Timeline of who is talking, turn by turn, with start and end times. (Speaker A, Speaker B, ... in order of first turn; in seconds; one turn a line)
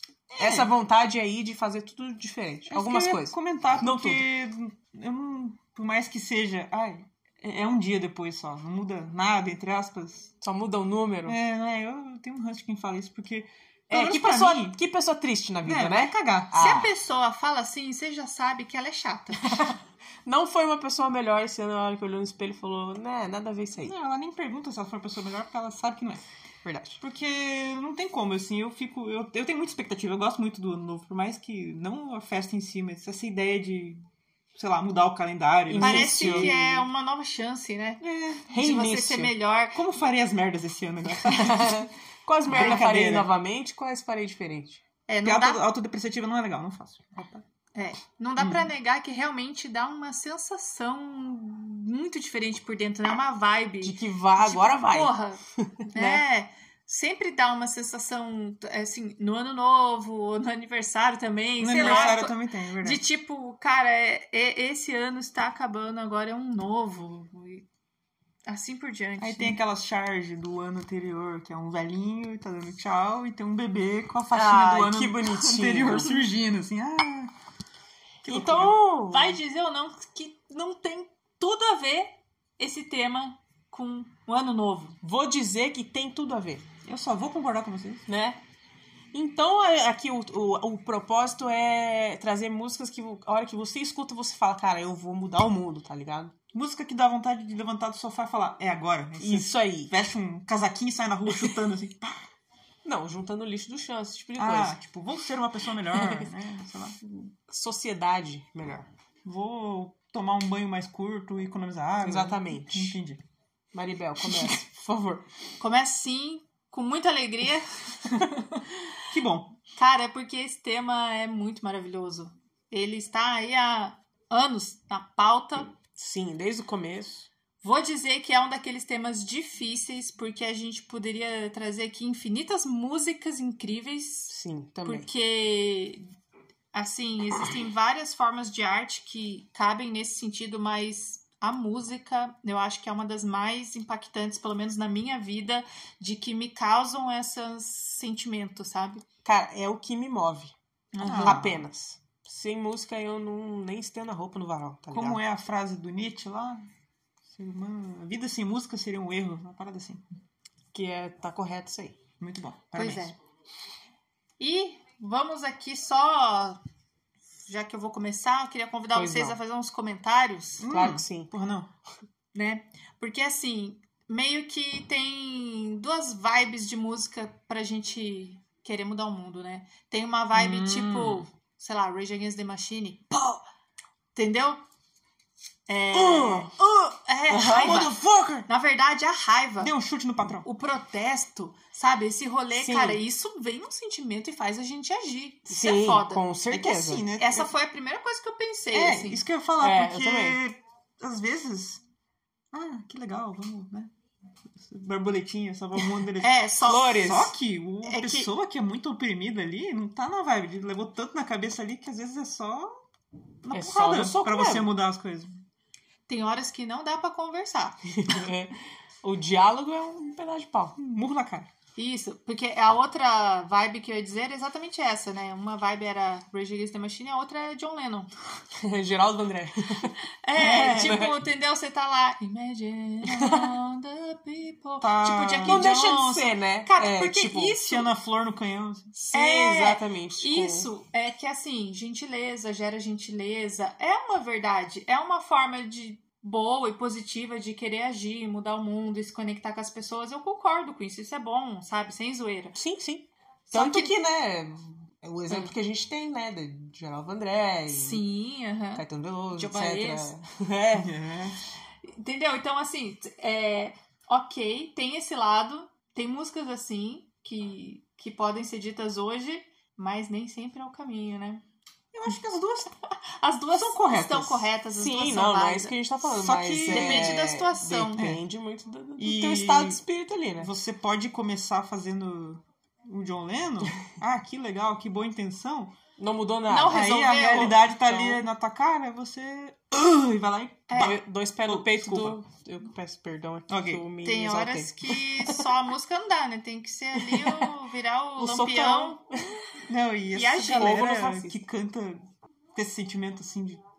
Speaker A: 0.3-0.7
Speaker B: 0.4-4.3
Speaker A: 2.7-10.3
Speaker B: 10.4-11.4
Speaker A: 11.2-14.8
Speaker B: 13.9-16.9
Speaker A: 15.6-16.6
Speaker C: 16.6-19.7
Speaker B: 19.5-19.7
Speaker B: 20.2-23.9
Speaker A: 23.8-26.2
Speaker B: 26.6-27.0
Speaker A: 27.0-34.0
Speaker A: 34.5-36.5
Speaker B: 35.7-36.8
Speaker C: 35.8-39.8
Speaker A: 38.0-38.5
Speaker B: 38.5-39.3
Speaker A: 39.7-41.9
Speaker B: 41.4-44.8
Speaker A: 42.5-43.3
Speaker C: 45.1-45.6
Speaker A: 45.2-47.4
Speaker C: 47.7-55.4
Speaker A: 48.4-48.7
Speaker B: 53.8-56.2
Speaker C: 55.9-67.6
Speaker A: 61.6-63.0
Speaker B: 61.8-62.2
Speaker C: 68.5-69.6
Speaker A: 69.2-77.3
Speaker B: 74.3-76.1
Speaker A: 78.2-78.7
Speaker B: 78.2-79.4
Speaker C: 79.1-85.0
Speaker B: 85.0-86.6
Speaker A: 86.8-88.0
Speaker B: 88.1-88.4
Speaker B: 89.1-96.3
Speaker A: 96.5-102.2
Speaker B: 99.2-99.9
Speaker B: 102.8-104.7
Speaker A: 104.4-107.3
Speaker B: 106.0-106.2
Speaker B: 107.5-108.9
Speaker A: 109.2-113.2
Speaker B: 112.0-113.0
Speaker B: 113.7-115.2
Speaker C: 115.6-118.2
Speaker A: 119.1-119.6
Speaker C: 119.8-125.7
Speaker B: 126.0-127.3
Speaker C: 127.6-136.0
Speaker B: 134.3-135.1
Speaker C: 136.7-149.0
Speaker B: 149.2-155.2
Speaker C: 150.9-151.4
Speaker A: 151.0-151.6
Speaker A: 154.9-156.7
Speaker A: 157.3-160.0
Speaker B: 160.7-161.9
Speaker A: 162.2-163.2
Speaker C: 162.7-163.2
Speaker C: 164.4-166.6
Speaker C: 167.4-170.8
Speaker B: 168.9-169.4
Speaker A: 170.6-171.7
Speaker B: 170.7-171.3
Speaker C: 172.3-183.4
Speaker A: 180.3-181.3
Speaker C: 184.1-184.6
Speaker C: 185.7-187.9
Speaker B: 185.9-187.8
Speaker A: 187.4-188.5
Speaker C: 188.5-189.7
Speaker A: 189.6-190.4
Speaker C: 190.4-196.2
Speaker B: 192.5-193.0
Speaker B: 195.5-197.1
Speaker A: 196.5-197.5
Speaker C: 197.2-199.2
Speaker A: 198.7-201.8
Speaker B: 199.6-200.4
Speaker A: 202.5-203.9
Speaker A: 204.5-212.8
Speaker C: 206.2-207.0
Speaker B: 206.7-207.3
Speaker C: 207.8-208.3
Speaker A: 213.4-215.4
Speaker B: 213.5-214.7
Speaker C: 216.1-217.8
Speaker B: 217.9-220.7
Speaker A: 220.8-221.5
Speaker C: 221.8-228.1
Speaker B: 228.6-229.9
Speaker C: 230.2-237.9
Speaker A: 230.3-231.1
Speaker B: 230.5-231.1
Speaker B: 233.1-233.5
Speaker A: 234.8-236.2
Speaker B: 235.4-237.6
Speaker A: 237.6-238.9
Speaker B: 238.9-240.7
Speaker C: 239.1-252.6
Speaker B: 252.5-258.0
Speaker C: 253.5-253.9
Speaker C: 257.7-258.8
Speaker B: 258.7-260.9
Speaker C: 259.3-260.1
Speaker A: 260.7-261.4
Speaker C: 261.8-271.4
Speaker A: 271.9-272.7
Speaker C: 273.2-275.8
Speaker A: 273.5-274.5
Speaker B: 274.7-280.5
Speaker A: 276.1-277.2
Speaker C: 276.7-278.0
Speaker A: 277.9-278.2
Speaker A: 279.0-279.8
Speaker A: 280.4-285.8
Speaker B: 286.0-288.2
Speaker C: 286.5-287.6
Speaker A: 286.7-292.2
Speaker C: 290.7-290.9
Speaker B: 290.8-295.4
Speaker A: 293.5-293.8
Speaker C: 294.0-299.0
Speaker B: 297.0-297.5
Speaker B: 298.2-299.1
Speaker A: 299.7-303.6
Speaker C: 300.1-300.9
Speaker B: 300.5-301.4